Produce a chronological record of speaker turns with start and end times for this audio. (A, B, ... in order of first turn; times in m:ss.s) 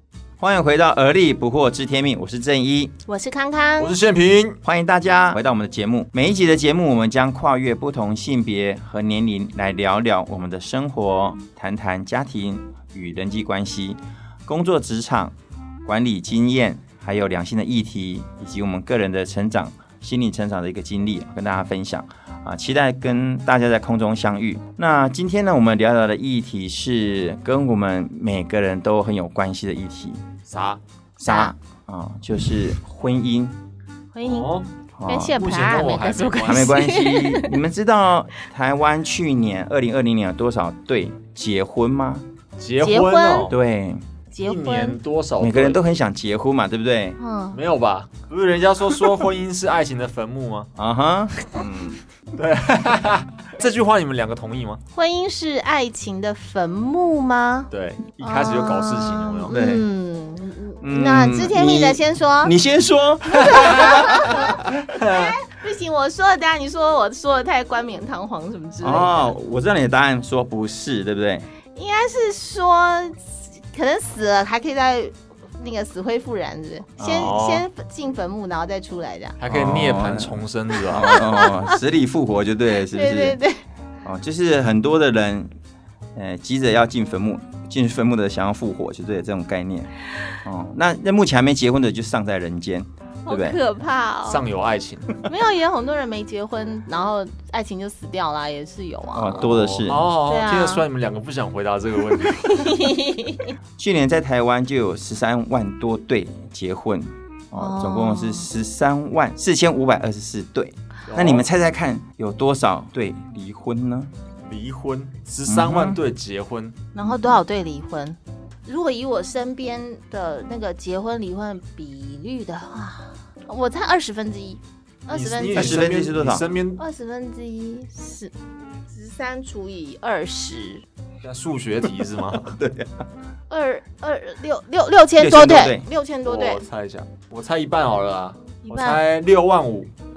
0:00.4-0:02.9 A
0:03.1-0:03.9 B
0:03.8-0:04.6 C
0:04.6-0:30.2 A
0:30.5-0:30.8 C
0:31.2-0:33.6 A
0:31.2-0:31.5 B
0:34.1-0:34.5 B
0:34.2-0:34.7 C
0:35.0-0:35.4 A
0:35.0-0:37.6 B
0:35.3-0:36.7 C
0:36.4-0:42.2 A
0:42.6-0:43.5 C
0:42.8-0:43.5 B
0:43.5-0:44.0 A
0:44.3-0:45.0 B
0:44.4-0:45.8 C
0:45.4-0:47.2 A
0:47.2-0:47.6 B
0:47.5-0:50.7 C
0:50.8-0:52.0 A
0:52.3-0:54.8 C
0:54.9-0:57.7 B
0:57.7-0:59.5 C
0:58.2-1:02.5 B
0:59.5-0:59.8 A
1:00.8-1:04.8 A
1:03.2-1:09.3 B
1:08.8-1:11.5 A
1:11.7-1:19.4 B
1:17.0-1:17.4 A
1:17.2-1:17.6 C
1:19.4-1:21.1 C
1:19.5-1:23.4 A
1:20.9-1:21.8 B
1:22.8-1:23.6 B
1:24.0-1:25.5 A
1:26.1-1:33.6 A
1:33.2-1:34.4 B
1:34.2-1:35.2 C
1:35.2-1:39.5 B
1:39.1-1:40.0 A
1:39.3-1:42.8 C
1:40.2-1:40.8 B
1:42.2-1:43.5 B
1:43.8-1:54.1 A
1:47.6-1:48.5 B
1:51.1-1:51.5 C
1:54.4-1:56.8 C
1:55.5-1:56.0 A
1:56.9-2:05.8 B
2:05.1-2:06.8 C
2:05.5-2:06.5 A
2:06.8-2:08.3 B
2:08.9-2:10.8 B
2:11.2-2:12.5 C
2:12.4-2:13.0 A
2:13.5-2:16.6 B
2:15.2-2:15.8 A
2:16.2-2:19.9 C
2:18.6-2:19.0 B